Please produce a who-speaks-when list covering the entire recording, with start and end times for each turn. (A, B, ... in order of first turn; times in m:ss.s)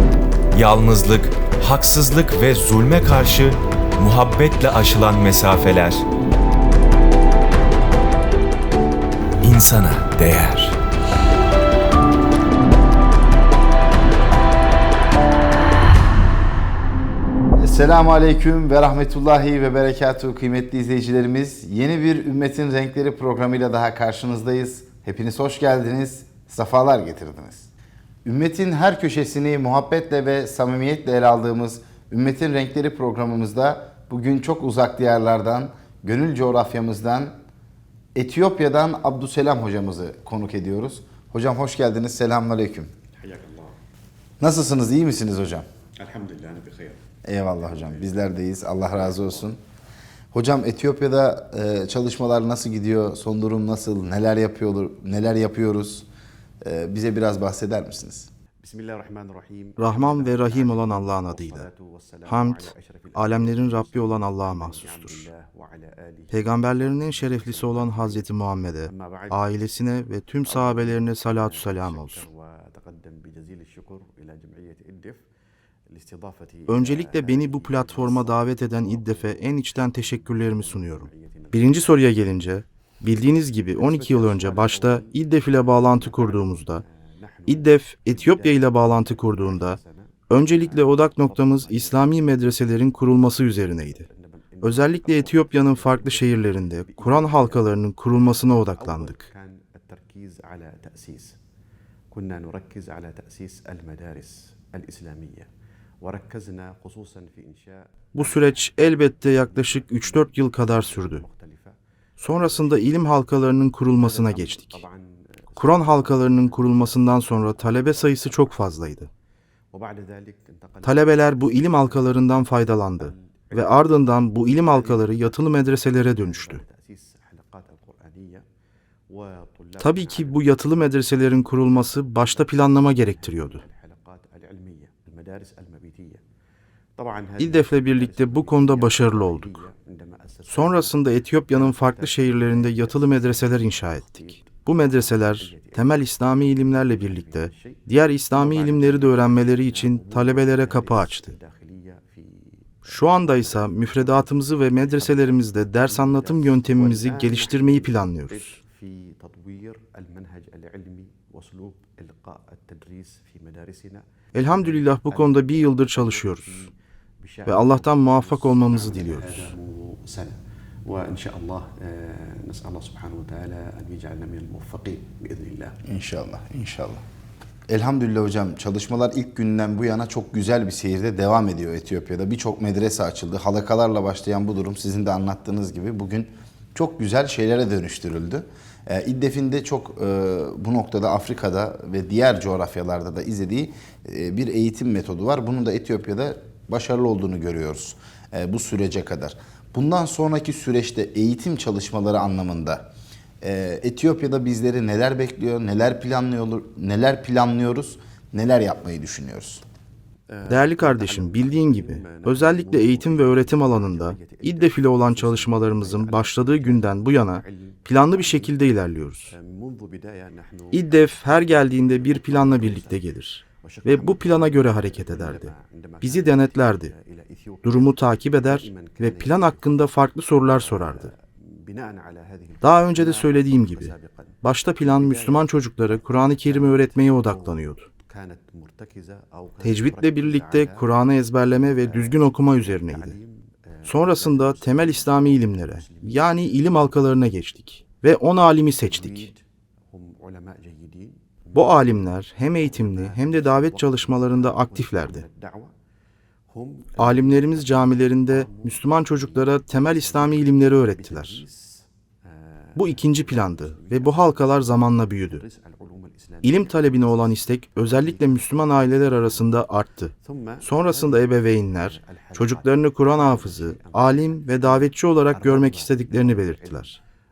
0:00.5-0:06.0 A
0:09.4-0:10.8 A
0:17.6-0:27.7 B
0:28.2-0:37.3 B
0:38.1-0:42.9 B
0:44.4-0:45.6 B
0:46.0-0:47.0 C
0:47.2-0:49.6 B
0:50.3-0:56.0 B
0:56.6-0:58.3 B
0:58.6-1:05.8 C
0:59.8-1:01.7 D
1:02.2-1:05.3 D
1:06.3-1:12.2 D
1:12.0-1:15.2 C
1:15.9-1:18.2 C
1:16.7-1:26.8 D
1:24.0-1:25.0 C
1:27.5-1:29.8 D
1:29.5-1:29.8 C
1:30.3-1:34.1 D
1:34.6-1:39.3 D
1:38.9-1:41.3 C
1:42.1-1:45.4 C
1:46.0-1:47.6 C
1:48.1-1:51.2 D
1:50.9-1:51.3 C
1:52.2-1:54.8 D
1:55.6-1:59.1 D
1:59.7-2:00.5 C
2:00.8-2:06.6 D
2:06.6-2:08.4 C
2:09.8-2:13.6 D
2:14.2-2:16.2 C
2:17.0-2:19.8 C
2:17.4-2:19.7 D
2:20.5-2:31.4 D
2:22.2-2:22.9 C
2:28.6-2:32.0 C
2:32.8-2:38.6 D
2:36.5-2:37.8 C
2:38.5-2:44.0 C
2:44.3-2:46.7 D
2:47.4-2:49.5 D
2:48.4-2:50.3 C
2:50.8-2:55.7 C
2:55.8-2:57.0 B
2:57.7-3:22.9 B
3:23.4-3:29.6 B
3:30.4-3:36.7 C
3:30.4-3:39.3 D
3:39.5-3:40.4 C
3:40.7-3:46.9 D
3:43.8-3:46.7 C
3:47.6-3:51.1 D
3:48.9-3:49.5 C
3:51.7-3:52.6 C
3:52.6-3:57.9 D
3:53.2-3:54.0 C
3:58.1-4:00.8 C
3:59.6-4:03.2 D
4:02.8-4:03.2 C
4:03.8-4:04.9 C
4:03.8-4:09.3 D
4:09.9-4:11.1 C
4:11.5-4:15.2 D
4:13.1-4:15.7 C
4:16.6-4:17.0 C
4:17.0-4:21.4 D
4:21.1-4:21.5 C
4:22.8-4:25.4 D
4:25.5-4:26.5 C
4:26.4-4:37.0 D
4:30.6-4:30.8 C
4:32.3-4:34.6 C
4:35.4-4:36.0 C